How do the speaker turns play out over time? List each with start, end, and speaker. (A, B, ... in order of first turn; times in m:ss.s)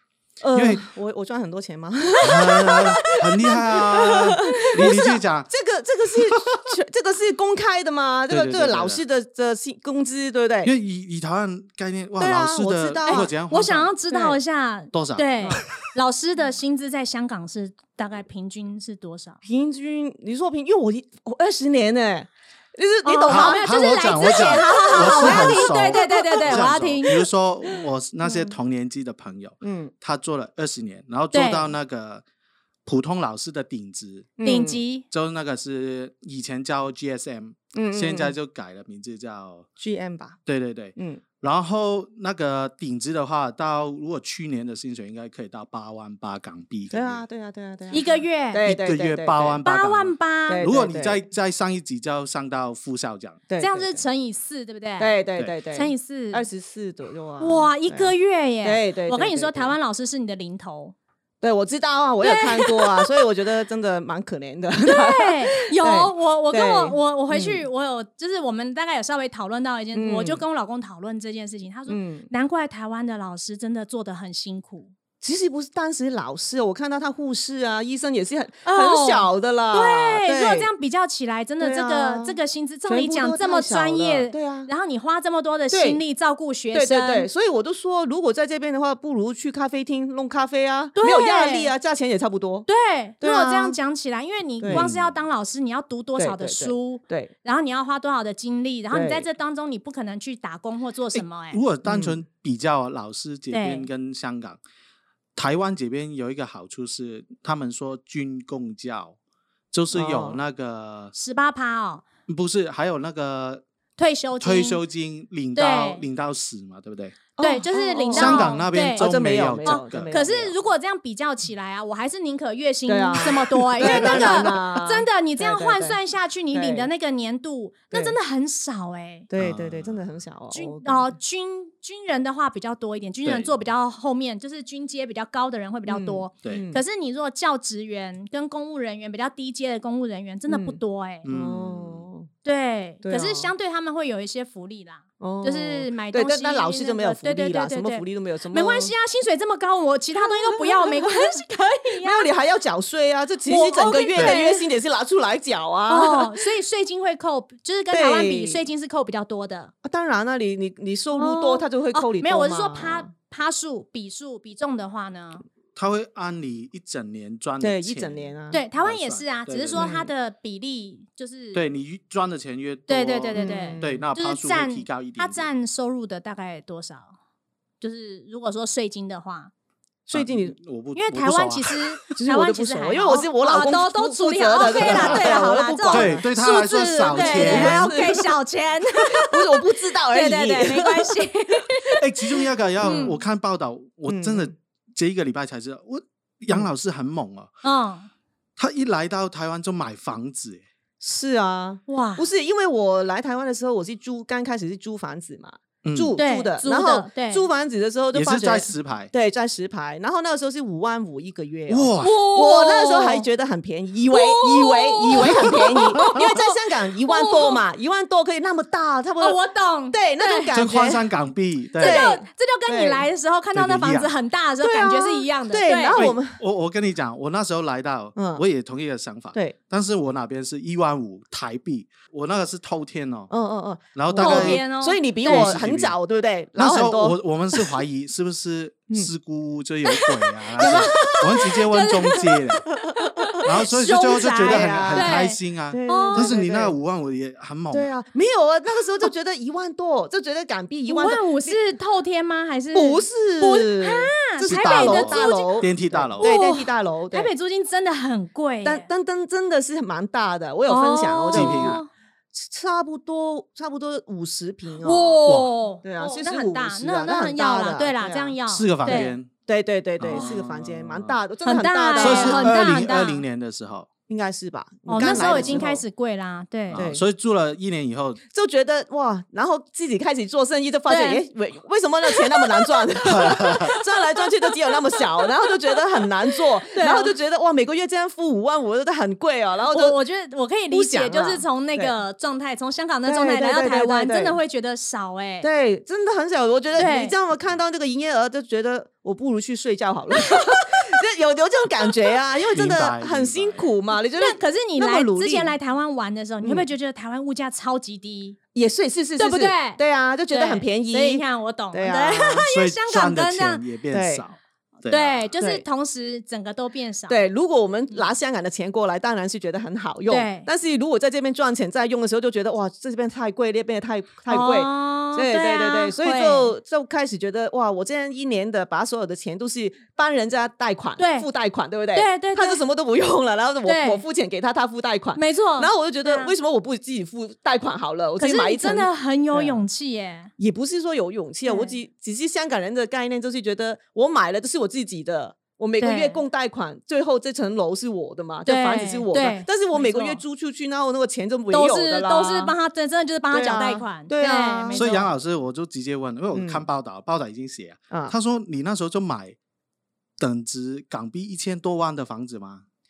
0:00.4-0:10.7 A
0:00.5-0:00.8 B
0:02.2-0:05.5 B
0:08.3-0:09.0 B
0:10.6-0:13.9 B
0:12.2-0:13.3 A
0:13.1-0:19.4 C
0:14.1-0:14.4 A
0:14.9-0:15.2 B
0:19.4-0:26.6 A
0:23.0-0:27.3 C
0:23.3-0:32.2 B
0:27.7-0:28.5 A
0:29.6-0:29.9 A
0:31.3-0:31.7 C
0:32.8-0:34.3 B
0:34.4-0:34.8 A
0:34.4-0:35.0 C
0:35.1-0:39.7 B
0:37.7-0:38.4 A
0:39.8-0:40.4 A
0:40.4-0:47.2 B
0:41.0-0:41.2 A
0:46.9-0:49.6 A
0:47.9-0:48.6 C
0:48.6-0:53.4 B
0:49.6-0:50.6 C
0:50.5-0:51.2 A
0:53.5-0:54.0 A
0:53.6-0:55.1 C
0:55.0-0:59.7 A
0:55.7-0:56.4 C
0:57.4-1:00.9 C
1:01.4-1:07.6 A
1:02.2-1:03.2 C
1:04.9-1:14.9 C
1:09.9-1:10.4 A
1:11.9-1:12.3 A
1:15.2-1:20.7 A
1:18.6-1:27.3 C
1:21.6-1:24.7 A
1:25.7-1:26.0 A
1:26.7-1:32.7 A
1:31.0-1:31.7 C
1:32.7-1:41.6 C
1:33.2-1:33.8 A
1:34.6-1:34.9 A
1:34.6-1:35.2 B
1:36.2-1:37.3 A
1:38.9-1:39.2 A
1:41.1-1:44.6 B
1:41.8-1:42.2 A
1:43.5-1:43.9 C
1:45.4-1:49.2 B
1:49.7-1:51.1 B
1:49.9-1:50.4 A
1:51.1-1:52.0 C
1:52.3-1:53.6 B
1:54.0-1:54.8 C
1:54.4-1:57.2 B
1:55.5-1:56.0 C
1:57.4-2:00.5 A
1:57.4-1:59.1 C
1:58.1-2:00.2 B
1:59.6-2:09.3 C
2:02.9-2:06.0 A
2:03.8-2:04.4 B
2:06.5-2:06.9 A
2:09.3-2:11.1 A
2:09.4-2:10.0 B
2:10.5-2:21.3 C
2:13.2-2:13.5 B
2:15.9-2:16.8 A
2:20.5-2:22.3 A
2:21.2-2:22.0 B
2:22.4-2:32.3 C
2:23.0-2:23.5 A
2:25.2-2:28.9 A
2:30.1-2:31.4 A
2:32.0-2:36.4 A
2:33.5-2:34.7 C
2:34.1-2:34.4 B
2:35.9-2:39.7 C
2:37.9-2:38.6 A
2:39.8-2:43.1 A
2:41.1-2:45.4 C
2:45.7-2:49.9 B
2:47.6-2:48.6 A
2:48.5-2:51.6 C
2:49.7-2:50.1 A
2:51.5-2:55.5 B
2:52.9-2:57.1 C
2:53.3-2:54.0 A
2:57.8-2:59.5 C
3:00.0-3:00.6 A
3:00.1-3:02.0 B
3:00.9-3:12.0 C
3:02.1-3:06.3 A
3:04.7-3:07.9 B
3:07.1-3:08.3 A
3:08.9-3:12.0 A
3:12.0-3:17.5 B
3:12.8-3:13.1 A
3:12.8-3:13.2 C
3:14.1-3:14.5 A
3:17.6-3:18.1 C
3:18.6-3:20.6 B
3:21.0-3:39.4 A
3:21.9-3:22.2 C
3:25.8-3:26.2 B
3:26.2-3:27.4 C
3:28.1-3:29.1 B
3:31.7-3:32.2 B
3:32.0-3:33.3 C
3:34.1-3:36.4 C
3:37.0-3:37.6 C
3:39.2-3:40.5 C
3:39.9-3:41.0 A
3:40.5-3:42.1 B
3:41.8-3:46.1 C
3:41.8-3:43.0 A
3:43.5-3:44.1 B
3:44.6-3:46.4 A
3:45.9-3:53.3 B
3:48.1-3:48.4 A
3:53.3-3:57.7 A
3:53.9-3:54.6 B
3:54.2-3:55.6 C
3:55.2-3:56.0 B
3:56.5-4:02.7 B
4:00.0-4:06.3 C
4:00.6-4:01.2 A
4:03.0-4:03.4 A
4:03.4-4:07.9 B
4:04.4-4:06.7 A
4:07.7-4:11.6 A
4:10.9-4:15.6 C
4:12.7-4:17.3 A
4:14.4-4:16.4 B
4:16.2-4:18.9 C
4:18.6-4:25.2 A
4:20.7-4:21.9 C
4:21.3-4:21.8 B
4:24.8-4:29.2 C
4:25.8-4:32.6 A
4:28.5-4:29.3 B
4:30.0-4:31.2 B
4:30.1-4:30.4 C
4:31.4-4:33.2 C
4:32.0-4:33.9 B
4:34.1-4:35.8 A
4:34.9-4:36.8 C
4:35.0-4:35.7 B
4:36.7-4:38.2 B
4:36.7-4:37.0 A
4:38.3-4:50.0 A
4:40.9-4:41.2 C
4:42.1-4:42.7 C
4:43.0-4:43.8 B
4:46.7-4:47.1 C
4:49.7-4:55.5 C
4:50.7-4:51.9 A
4:53.0-4:54.4 A
4:55.4-5:05.5 A
4:56.7-4:57.1 C
5:02.5-5:03.7 B
5:04.2-5:08.4 C
5:06.4-5:06.7 A
5:08.5-5:12.5 A
5:09.2-5:13.6 C
5:12.4-5:15.3 B
5:13.9-5:14.2 A
5:14.9-5:17.2 C
5:15.4-5:15.6 A
5:17.1-5:39.6 A
5:20.1-5:20.5 C
5:24.3-5:26.5 C
5:31.0-5:31.3 C
5:31.9-5:32.6 C
5:33.6-5:34.0 C
5:35.1-5:36.3 C
5:38.2-5:40.3 C
5:40.4-5:52.5 A
5:41.4-5:41.8 C
5:45.8-5:46.2 C
5:48.4-5:50.2 C
5:51.5-5:55.1 C
5:53.3-5:54.9 A
5:54.7-5:59.4 B
5:56.3-5:56.6 A
5:57.9-5:58.2 A
6:00.2-6:02.6 B